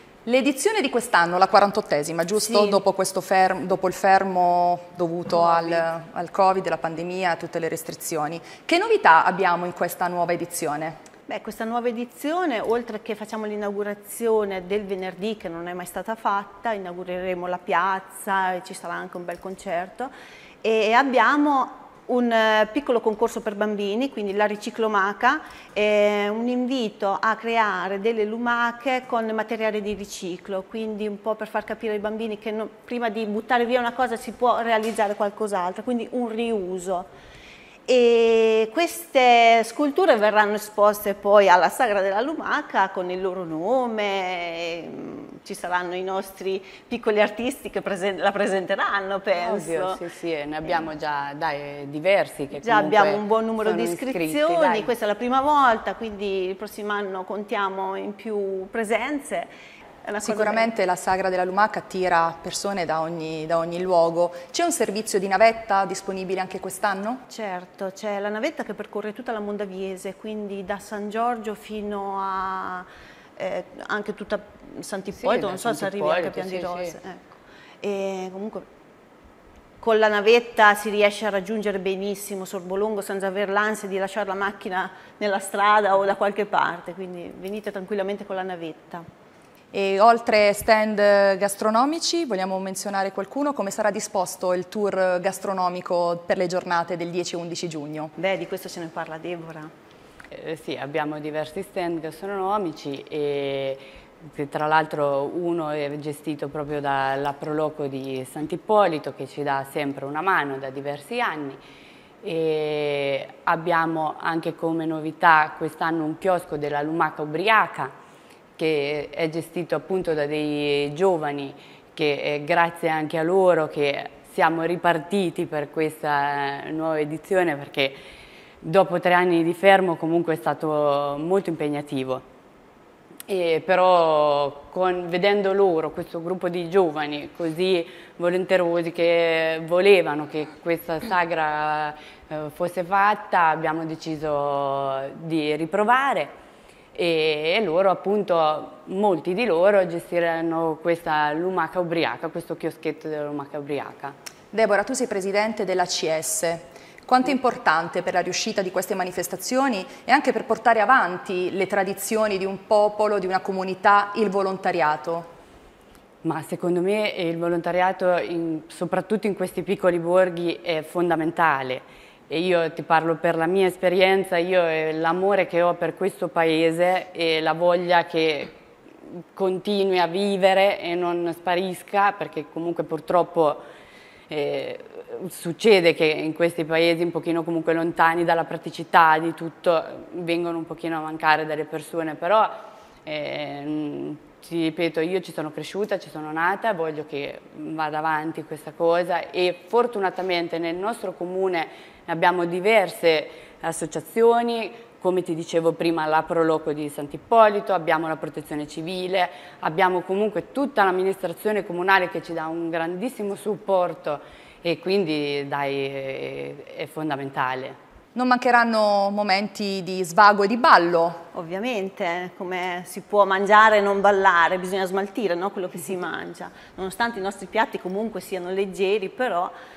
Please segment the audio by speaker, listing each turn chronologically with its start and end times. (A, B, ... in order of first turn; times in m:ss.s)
0:00.2-0:11.0 A
0:02.4-0:02.8 B
0:05.4-0:05.8 B
0:11.3-0:20.1 B
0:20.6-0:37.1 B
0:37.9-0:50.0 B
0:49.4-0:54.9 C
0:52.6-0:59.5 B
1:00.0-1:00.7 B
1:00.2-1:07.2 A
1:07.3-1:17.3 B
1:15.1-1:17.0 C
1:17.8-1:18.6 B
1:19.8-1:29.0 B
1:29.7-1:38.1 A
1:38.2-1:39.7 B
1:40.3-1:51.6 C
1:52.2-1:57.9 C
1:58.6-2:08.0 C
2:08.6-2:12.2 C
2:13.3-2:26.3 C
2:26.9-2:34.2 C
2:34.5-2:45.3 A
2:46.2-2:58.6 C
2:59.4-3:03.6 C
3:04.3-3:12.5 C
3:13.0-3:37.8 C
3:38.2-3:41.2 A
3:41.3-3:49.5 B